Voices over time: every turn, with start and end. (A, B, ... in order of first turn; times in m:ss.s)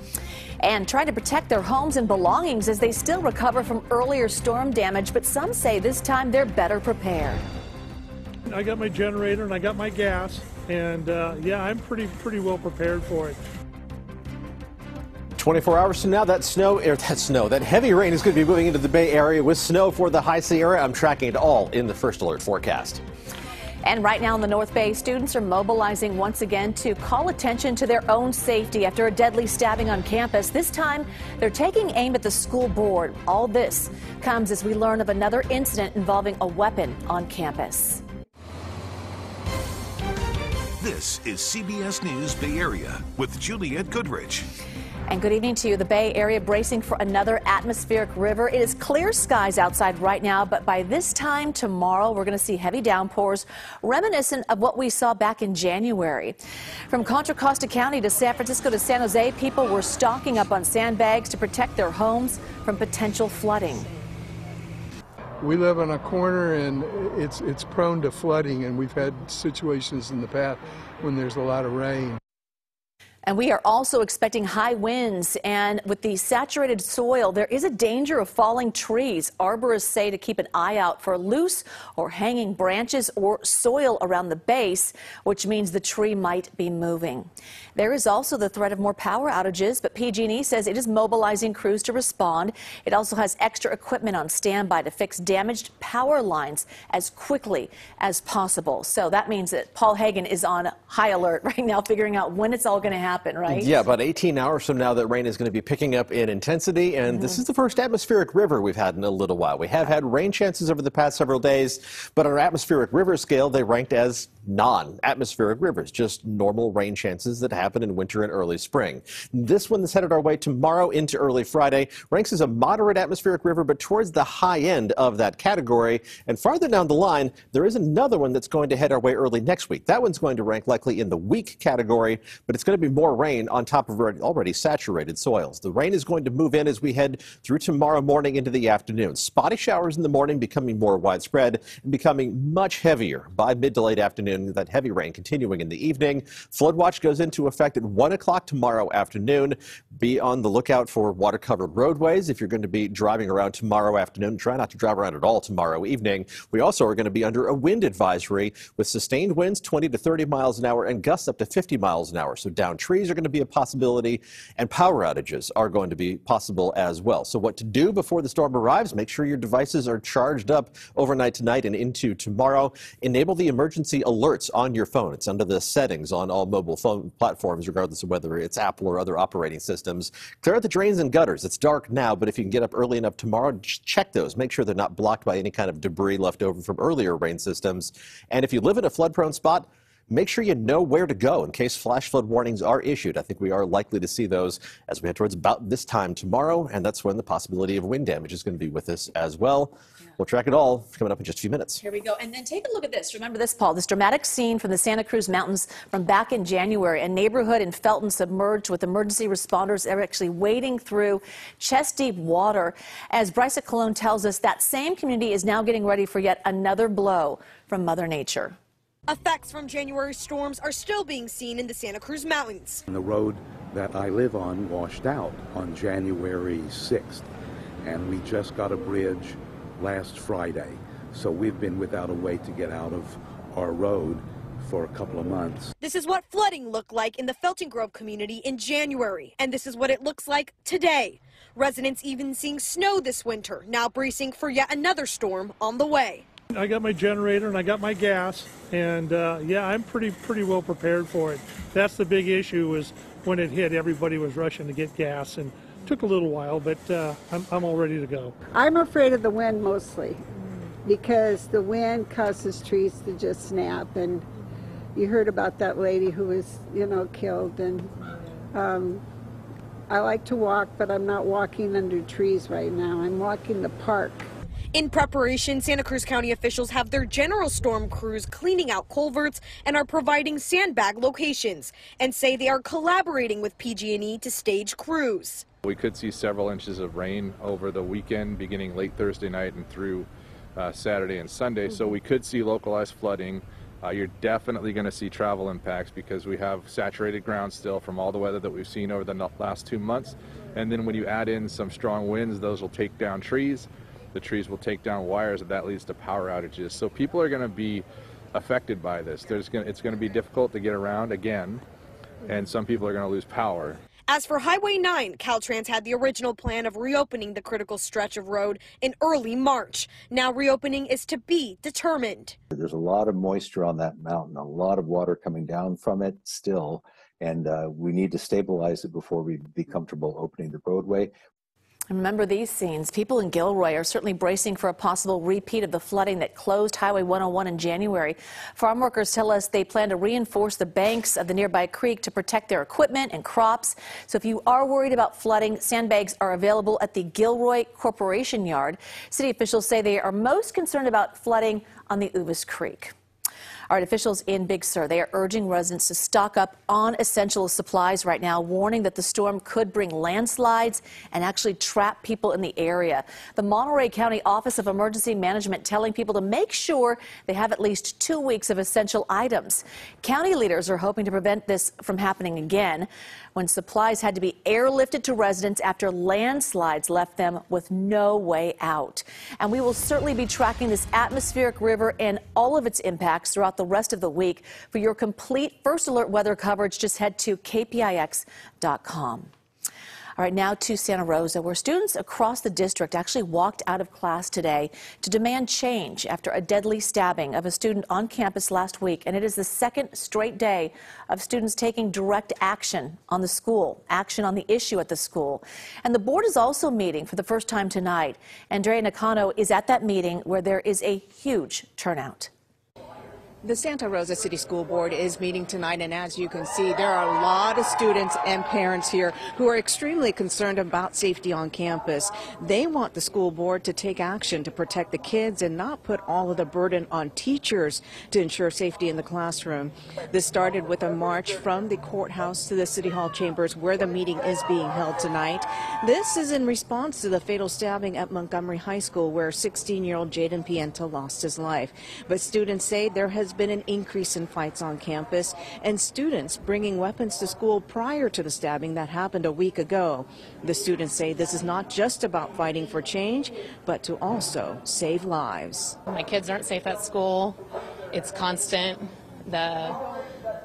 0:00.6-0:07.4 A
0:08.5-0:13.4 B
0:15.4-0:23.0 C
0:23.8-0:38.0 A
0:40.8-0:44.5 D
0:45.1-0:56.4 A
0:56.9-1:03.9 A
1:05.4-1:12.2 E
1:13.3-1:43.8 A
1:43.5-3:21.8 C
1:47.1-1:47.4 A
3:21.8-3:38.6 A
3:39.1-3:42.8 F
3:42.9-3:47.3 G
3:47.8-3:55.7 G
3:55.8-4:06.3 F
4:06.5-4:18.3 B
4:18.5-4:20.2 H
4:20.8-4:24.3 H
4:25.0-4:28.0 H
4:28.5-4:29.0 H
4:29.9-4:34.3 H
4:34.7-4:45.5 F
4:45.7-5:11.6 I
5:12.2-5:13.8 I
5:14.1-5:22.4 F
5:22.5-5:31.1 J
5:31.9-5:52.9 A
5:53.7-6:29.3 A
6:30.2-6:52.3 A
6:53.4-7:35.8 K
7:35.9-7:37.4 L
7:37.9-7:39.8 L